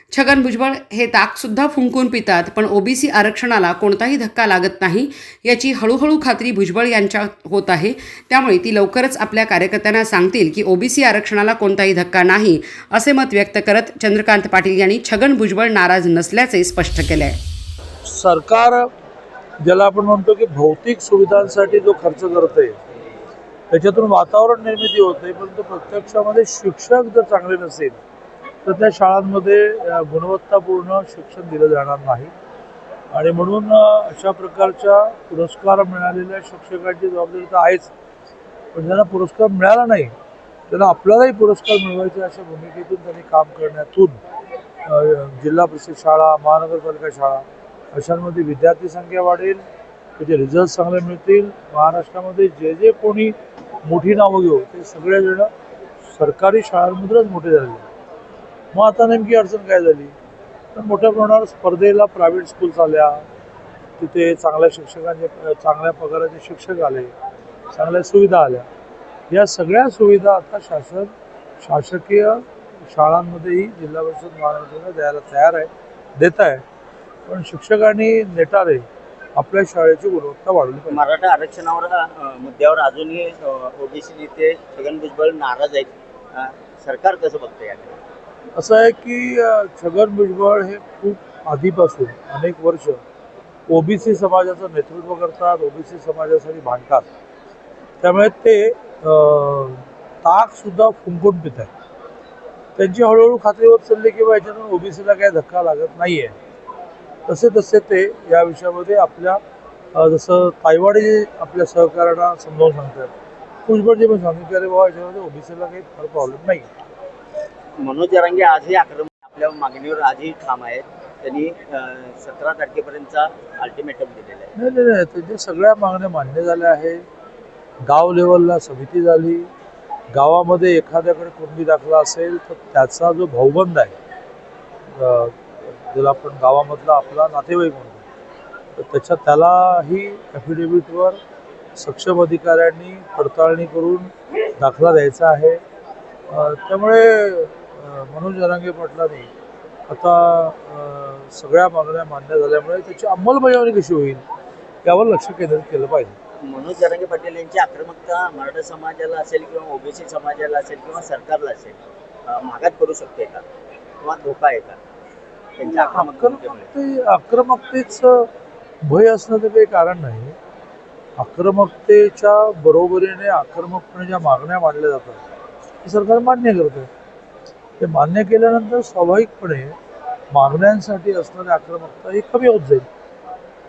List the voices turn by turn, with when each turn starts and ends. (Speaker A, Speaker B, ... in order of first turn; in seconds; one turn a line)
Speaker A: 0.1-17.4
Speaker B: 18.1-18.9
Speaker B: 19.6-22.8
Speaker B: 23.7-28.0
Speaker B: 28.6-32.3
Speaker B: 33.1-37.9
Speaker B: 38.7-40.1
Speaker B: 40.7-44.2
Speaker B: 44.9-49.6
Speaker B: 50.2-55.5
Speaker B: 56.1-57.9
Speaker B: 58.7-60.1
Speaker B: 60.7-63.2
Speaker B: 64.0-67.1
Speaker B: 67.7-68.7
Speaker B: 69.3-76.6
Speaker B: 77.3-78.8
Speaker B: 79.4-81.0
Speaker C: 80.9-88.0
Speaker B: 88.6-93.0
Speaker B: 93.7-97.1
Speaker B: 98.0-101.7
Speaker B: 102.8-106.3
Speaker B: 107.3-109.4
Speaker B: 109.9-113.1
Speaker B: 113.7-116.7
Speaker C: 117.8-124.5
Speaker B: 124.5-127.0
Speaker B: 127.8-129.5
Speaker B: 130.1-133.9
Speaker B: 134.9-138.0
Speaker B: 138.8-141.2
Speaker B: 141.8-145.6
Speaker B: 146.3-149.3
Speaker B: 149.9-154.2
Speaker B: 154.8-156.2
Speaker C: 156.5-161.8
Speaker C: 162.3-163.4
Speaker C: 164.0-164.8
Speaker C: 165.6-166.7
Speaker B: 165.7-168.3
Speaker B: 168.8-170.4
Speaker B: 171.2-175.2
Speaker B: 175.8-176.9
Speaker B: 177.8-179.8
Speaker B: 180.3-182.9